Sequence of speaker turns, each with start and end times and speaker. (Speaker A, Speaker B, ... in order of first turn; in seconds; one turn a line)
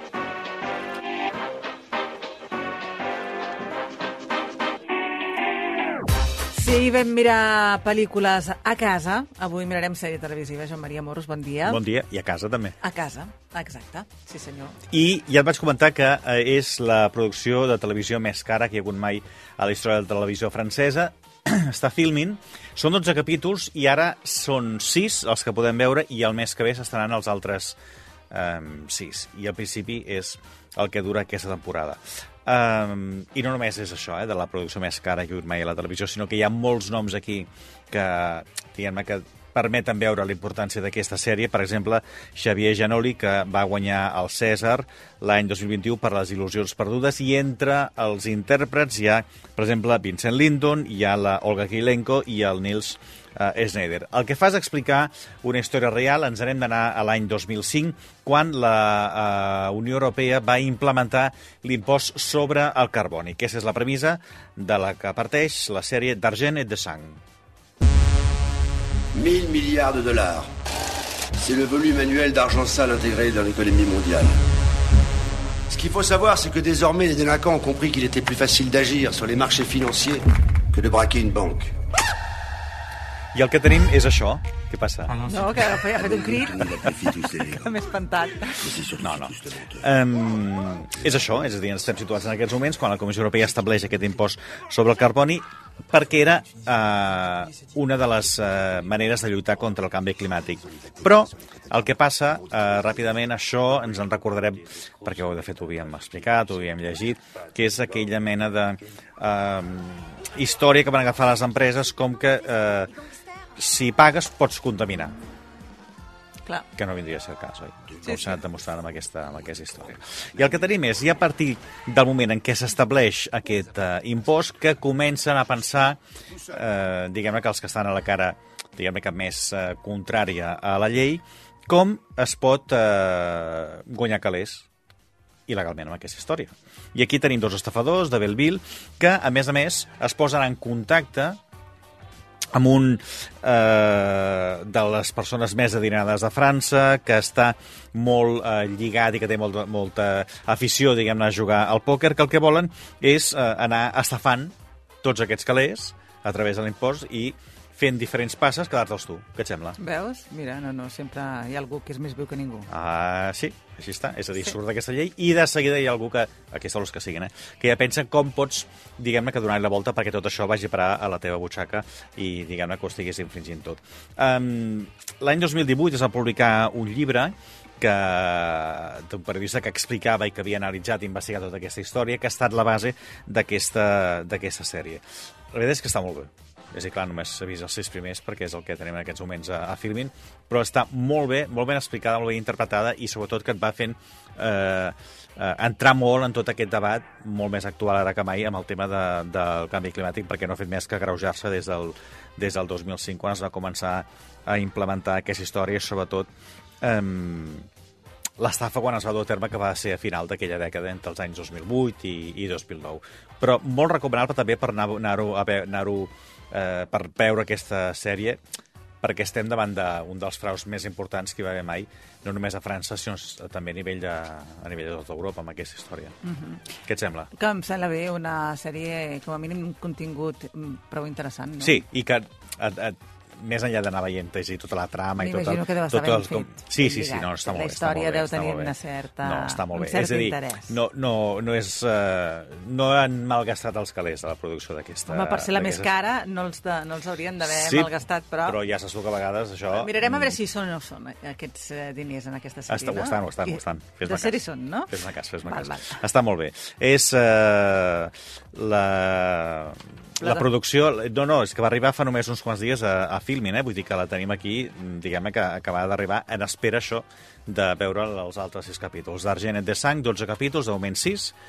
Speaker A: 6.5-11.8
Speaker B: 11.6-12.8
Speaker A: 12.8-14.8
Speaker B: 14.9-27.8
Speaker B: 28.3-67.2
Speaker C: 69.1-70.5
Speaker C: 71.3-74.4
Speaker C: 75.7-81.7
Speaker B: 83.3-85.2
Speaker A: 85.2-88.8
Speaker C: 86.0-87.4
Speaker B: 89.0-112.9
Speaker B: 113.6-115.2
Speaker B: 116.8-134.7
Speaker B: 135.5-141.4
Speaker B: 142.5-159.8
Speaker A: 159.8-162.7
Speaker B: 162.7-206.3
Speaker B: 206.8-207.7
Speaker B: 208.4-218.4
Speaker B: 219.0-226.1
Speaker A: 226.2-226.7
Speaker B: 226.8-227.3
Speaker A: 227.3-231.8
Speaker B: 231.6-245.9
Speaker A: 235.2-240.7
Speaker A: 245.1-248.6
Speaker B: 247.4-250.4
Speaker A: 249.7-256.0
Speaker B: 252.7-271.3
Speaker A: 260.2-260.4